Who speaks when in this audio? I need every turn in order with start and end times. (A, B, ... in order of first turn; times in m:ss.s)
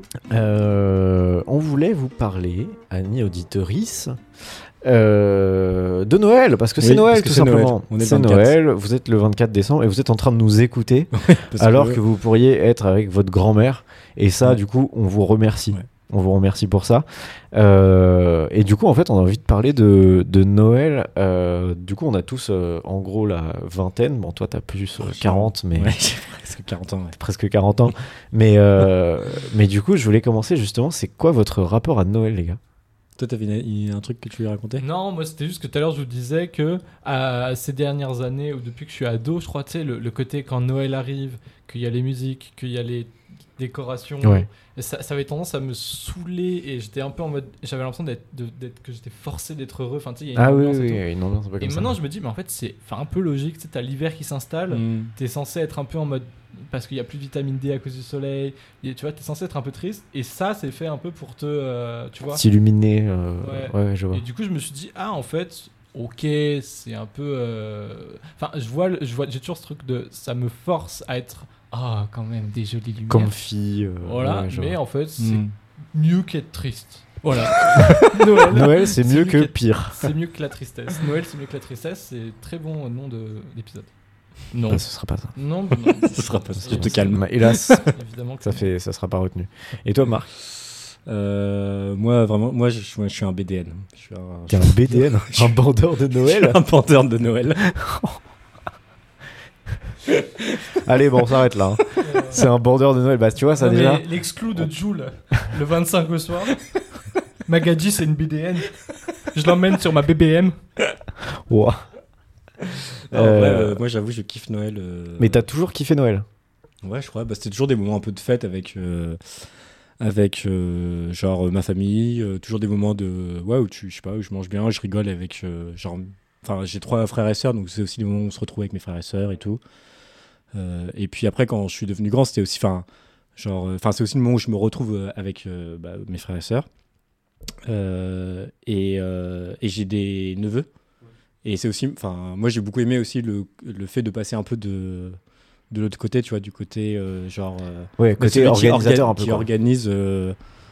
0:00.3-0:04.2 A
0:04.8-0:26.0 A
0:06.8-0:08.6 B
0:11.2-0:12.0 B
0:25.0-0:27.2 B
0:27.2-0:32.6 A
0:33.2-0:34.8 B
0:34.8-0:51.0 C
0:50.3-0:52.0 A
0:51.6-1:02.4 C
0:54.7-0:55.1 B
1:02.3-1:04.2 A
1:03.4-1:13.3 C
1:13.1-1:14.8 A
1:14.0-1:23.9 C
1:15.2-1:15.5 B
1:17.6-1:20.1 A
1:24.5-1:28.6 C
1:24.7-1:25.3 A
1:25.8-1:27.9 B
1:26.6-1:27.9 A
1:28.4-1:30.3 A
1:31.0-1:35.6 B
1:34.5-1:36.6 A
1:36.2-1:37.7 B
1:37.6-1:38.2 A
1:40.1-1:41.2 B
1:40.7-1:44.1 A
1:42.0-1:42.4 C
1:43.5-1:46.7 C
1:47.4-1:50.6 C
1:51.2-1:51.8 A
1:53.1-1:53.8 A
1:53.1-1:55.5 B
1:55.2-1:56.2 A
1:56.8-1:59.4 B
2:00.0-2:09.6 B
2:10.5-2:12.8 B
2:13.4-2:16.6 B
2:17.6-2:20.7 B
2:21.4-2:25.2 B
2:25.7-2:30.4 B
2:28.0-2:29.5 A